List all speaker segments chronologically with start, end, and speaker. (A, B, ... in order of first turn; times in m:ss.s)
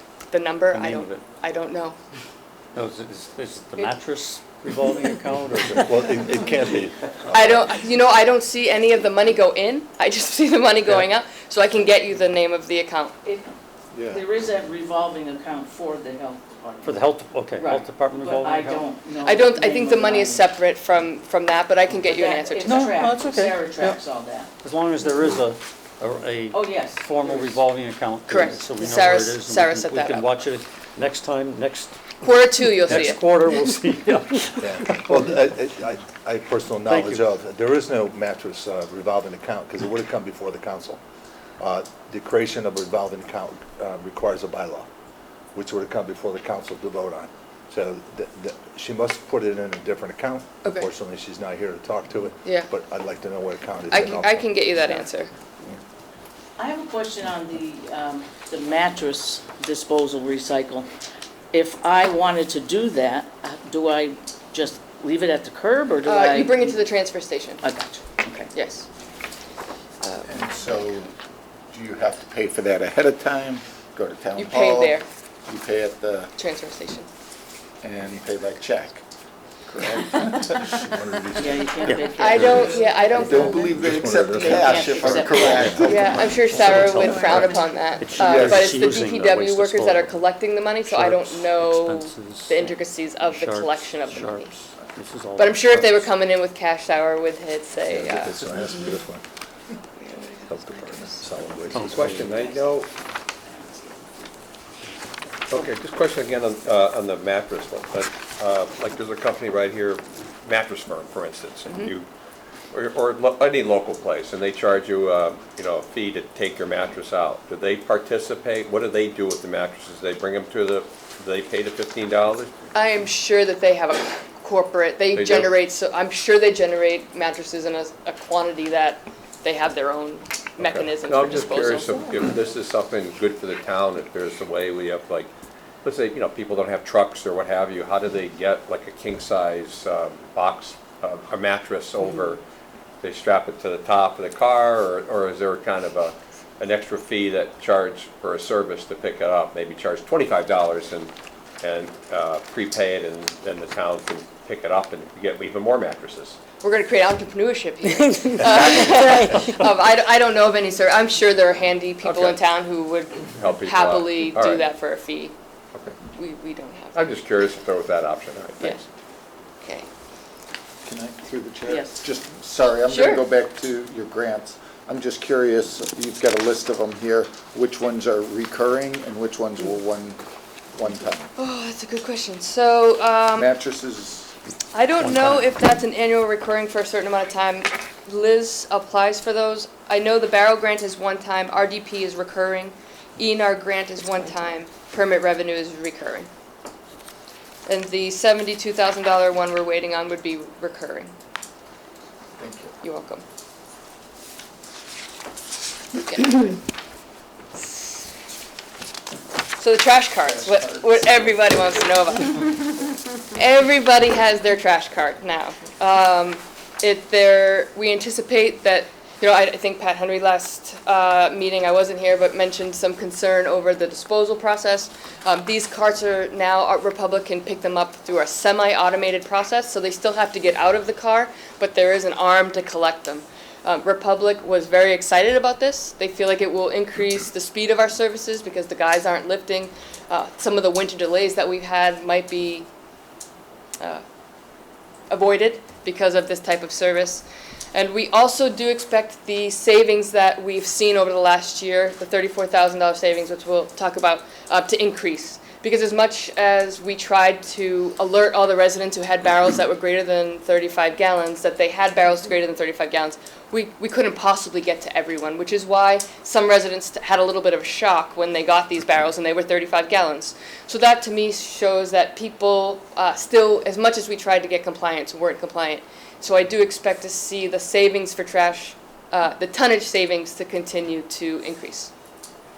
0:00.3-0:02.0 A
0:00.7-0:01.2 B
0:02.7-0:06.2 B
0:05.7-0:07.6 C
0:07.3-0:13.2 A
0:13.2-0:20.5 D
0:13.9-0:14.2 E
0:16.8-0:18.9 B
0:19.2-0:23.0 A
0:21.9-0:24.5 D
0:22.6-0:24.0 B
0:24.6-0:35.4 B
0:26.5-0:27.6 D
0:28.3-0:30.3 A
0:32.2-0:33.2 A
0:34.6-0:41.0 C
0:36.8-0:37.2 B
0:41.6-0:44.9 C
0:45.5-0:55.0 C
0:53.9-0:55.3 A
0:56.6-1:00.9 D
1:01.5-1:06.8 D
1:06.0-1:07.6 A
1:07.6-1:08.5 D
1:08.5-1:08.8 A
1:10.0-1:10.3 A
1:10.2-1:11.1 E
1:11.7-1:16.3 E
1:14.4-1:15.0 A
1:16.4-1:17.1 A
1:17.8-1:19.0 E
1:19.6-1:20.8 E
1:20.0-1:26.6 C
1:21.3-1:23.0 D
1:21.8-1:22.1 B
1:22.2-1:23.7 A
1:23.1-1:26.1 E
1:24.4-1:25.1 A
1:24.5-1:26.2 D
1:25.4-1:36.1 B
1:25.8-1:34.5 A
1:28.2-1:28.7 C
1:35.4-1:38.9 A
1:37.8-1:39.2 C
1:40.0-1:41.2 A
1:40.5-1:42.4 C
1:41.7-1:42.3 B
1:41.8-1:42.9 F
1:45.5-1:52.1 F
1:52.7-2:02.5 F
2:02.7-2:12.0 A
2:05.1-2:05.5 F
2:10.6-2:15.3 F
2:15.8-2:22.4 F
2:23.0-2:36.4 F
2:36.6-2:45.3 A
2:42.0-2:42.4 F
2:43.3-2:44.6 F
2:46.1-2:47.1 A
2:46.9-2:48.8 F
2:49.6-2:49.9 A
2:50.8-3:00.2 E
2:51.6-2:52.0 D
2:52.9-2:53.2 A
3:00.7-3:01.3 E
3:01.4-3:03.5 A
3:03.4-3:04.3 E
3:04.7-3:16.3 A
3:05.0-3:05.5 B
3:17.6-3:21.1 A
3:22.4-3:22.7 E
3:22.8-3:23.2 A
3:26.0-3:26.6 A
3:29.6-4:02.7 A
3:30.2-3:31.4 E
4:05.1-4:41.9 A